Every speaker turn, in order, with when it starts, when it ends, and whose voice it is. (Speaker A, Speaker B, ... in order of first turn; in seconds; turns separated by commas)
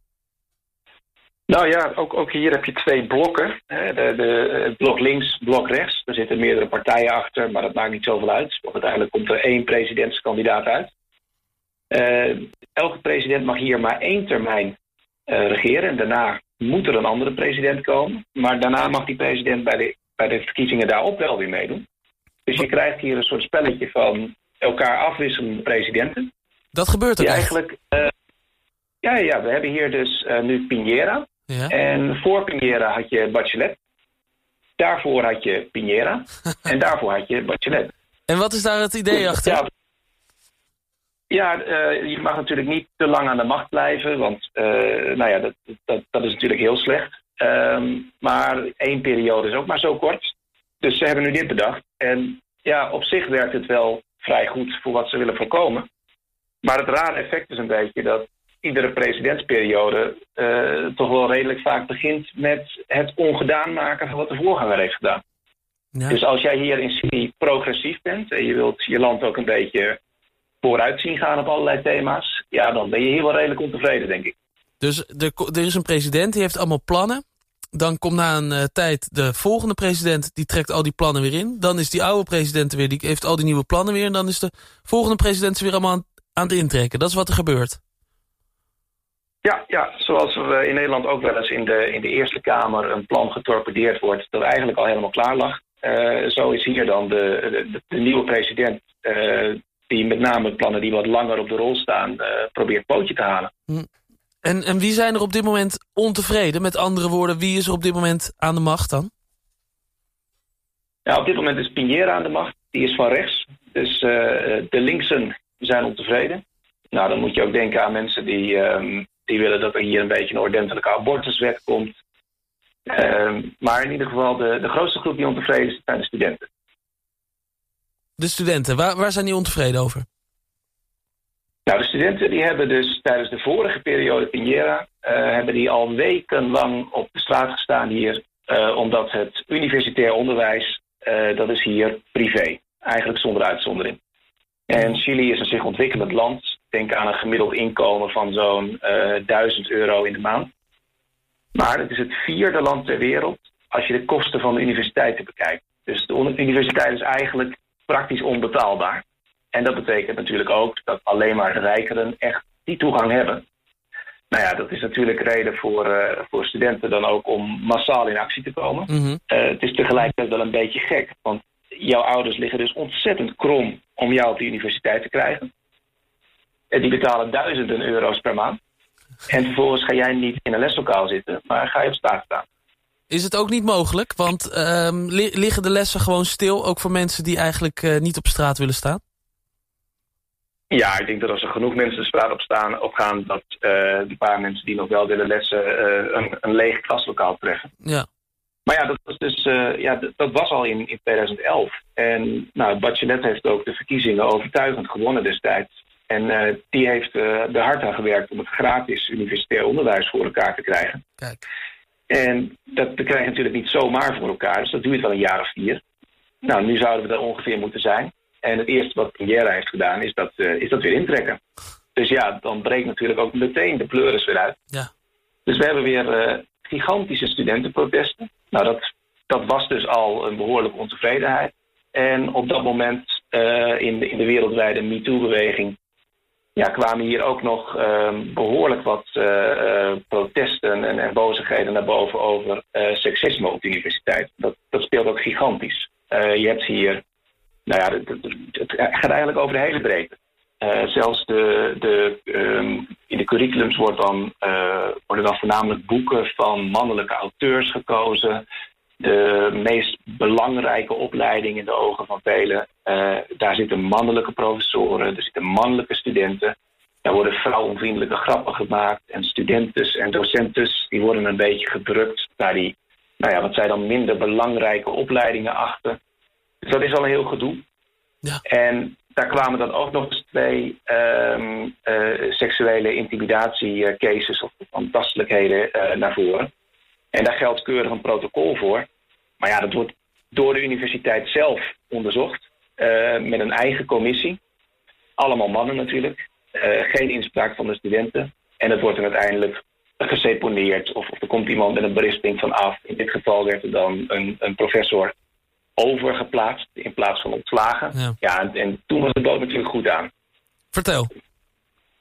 Speaker A: 1.5-10.9, Speaker A: 11.9-14.8, Speaker A: 15.3-21.8, Speaker A: 22.4-26.3, Speaker B: 26.7-27.5, Speaker A: 27.2-28.1, Speaker A: 29.0-33.8, Speaker A: 34.8-37.9, Speaker B: 38.3-39.7, Speaker A: 39.2-39.6, Speaker A: 41.3-55.9, Speaker A: 56.6-65.2, Speaker A: 66.1-70.0, Speaker A: 70.6-74.3, Speaker B: 74.8-87.8, Speaker A: 89.4-103.5, Speaker B: 104.4-109.1, Speaker A: 111.0-121.9, Speaker A: 122.8-126.5, Speaker B: 128.2-130.1, Speaker A: 131.7-144.0, Speaker A: 144.7-150.5, Speaker A: 151.5-163.4, Speaker A: 164.3-175.5, Speaker B: 168.9-169.2, Speaker A: 176.7-178.6, Speaker A: 179.3-182.4, Speaker B: 183.1-189.0, Speaker A: 190.7-197.7, Speaker A: 198.7-211.0, Speaker A: 212.1-215.8, Speaker A: 216.4-221.4, Speaker A: 221.9-224.6, Speaker A: 225.4-235.8, Speaker A: 236.6-247.0, Speaker A: 247.7-258.4, Speaker A: 259.0-276.0, Speaker A: 276.6-277.6, Speaker A: 278.4-286.5, Speaker A: 287.1-288.9, Speaker A: 289.4-294.4, Speaker A: 295.2-305.1, Speaker A: 305.8-310.1, Speaker B: 310.7-311.1